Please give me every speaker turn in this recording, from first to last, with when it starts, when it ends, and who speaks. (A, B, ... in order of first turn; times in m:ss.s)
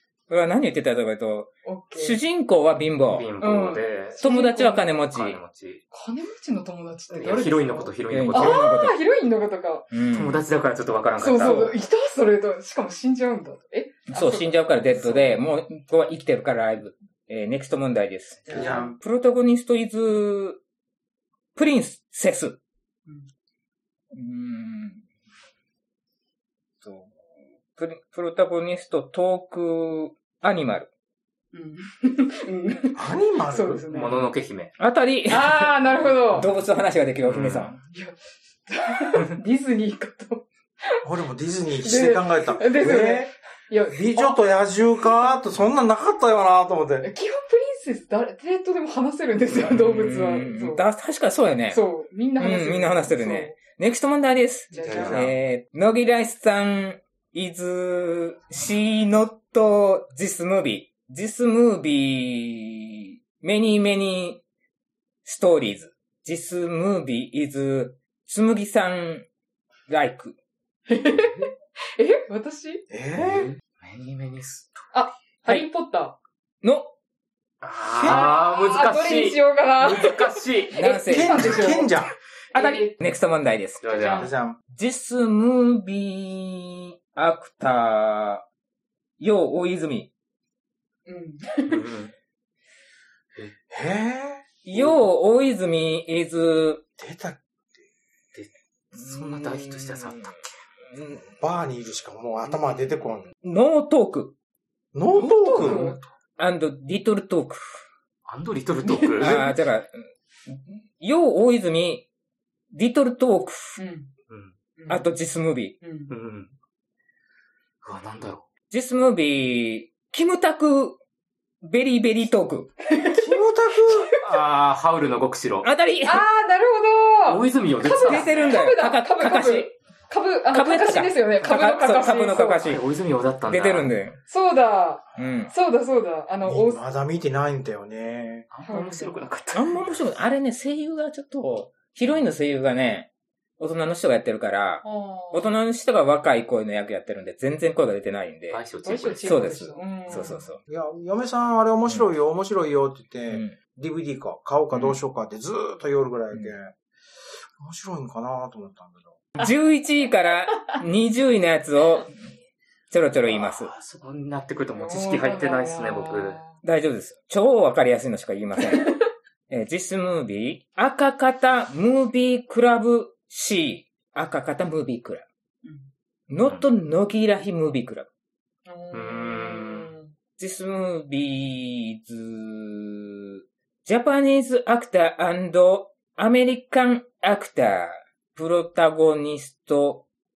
0:00.3-0:03.3 A
0:01.6-0:02.2 B
0:03.1-0:04.2 C
0:03.4-0:04.9 B
0:04.2-0:05.4 A
0:05.1-0:05.8 C
0:05.9-0:09.9 B
0:07.1-0:08.6 C
0:08.1-0:09.0 A
0:09.9-0:10.4 A
0:10.1-0:11.7 C
0:11.2-0:14.6 B
0:14.1-0:20.6 A
0:18.5-0:19.0 D
0:21.5-0:22.6 A
0:24.1-0:25.0 A
0:26.8-0:27.1 A
0:27.7-0:30.9 A
0:31.5-0:34.3 B
0:32.9-0:33.8 D
0:33.6-0:34.8 C
0:34.8-0:37.8 A
0:35.3-0:36.5 B
0:37.2-0:37.8 C
0:37.9-0:41.0 B
0:41.0-0:43.3 D
0:41.8-0:44.4 B
0:43.9-0:47.1 D
0:47.0-0:50.8 B
0:49.6-0:51.8 A
0:51.7-0:53.6 B
0:52.4-1:04.4 A
0:54.7-0:55.3 C
0:54.7-0:55.2 B
0:54.9-0:55.2 D
1:05.2-1:09.3 A
1:09.9-1:10.4 A
1:10.9-1:12.8 B
1:12.9-1:13.5 D
1:13.2-1:14.9 C
1:14.9-1:16.2 B
1:16.6-1:16.9 A
1:17.6-1:20.8 C
1:17.9-1:18.3 D
1:18.0-1:23.0 B
1:20.7-1:21.6 A
1:21.0-1:22.1 D
1:22.5-1:23.8 A
1:23.8-1:24.3 C
1:23.9-1:24.3 B
1:24.1-1:24.6 D
1:24.7-1:28.4 A
1:29.2-1:30.1 A
1:31.0-1:31.8 B
1:31.7-1:32.1 C
1:33.7-1:35.0 D
1:34.6-1:36.8 A
1:37.0-1:37.4 D
1:38.3-1:40.4 C
1:38.9-1:40.2 A
1:40.9-1:41.2 A
1:41.2-1:43.3 D
1:43.4-1:44.4 A
1:44.9-1:45.9 D
1:45.2-1:46.0 B
1:45.6-1:45.9 C
1:46.4-1:47.8 A
1:48.2-1:49.4 C
1:48.8-1:49.4 B
1:49.2-1:49.9 A
1:50.5-1:52.1 A
1:52.7-1:53.8 A
1:53.8-1:54.1 B
1:54.3-1:54.6 C
1:54.8-1:55.0 B
1:54.9-1:55.8 A
1:55.8-1:56.1 B
1:56.1-1:56.5 C
1:57.8-1:58.5 C
1:58.7-2:01.0 A
2:01.6-2:02.7 A
2:02.9-2:03.3 B
2:03.1-2:04.2 D
2:04.2-2:05.7 C
2:05.6-2:06.2 A
2:06.0-2:12.7 B
2:07.3-2:08.6 C
2:07.9-2:09.7 A
2:10.5-2:12.8 A
2:12.6-2:13.9 C
2:13.5-2:14.2 A
2:14.3-2:16.8 B
2:15.2-2:15.5 A
2:16.4-2:18.5 D
2:18.5-2:20.0 C
2:18.6-2:19.2 B
2:19.5-2:28.6 A
2:24.8-2:25.5 B
2:28.5-2:29.4 C
2:28.8-2:30.4 B
2:29.2-2:30.6 A
2:30.1-2:36.7 D
2:33.3-2:33.6 A
2:37.6-2:39.2 D
2:39.4-2:42.1 A
2:42.9-2:43.7 A
2:43.3-2:46.4 C
2:44.7-2:46.6 B
2:46.6-2:49.0 A
2:49.5-2:55.2 A
2:55.6-2:55.9 B
2:56.3-2:58.1 A
2:58.6-3:00.1 B
2:58.9-2:59.9 C
3:00.4-3:03.1 A
3:03.8-3:10.1 A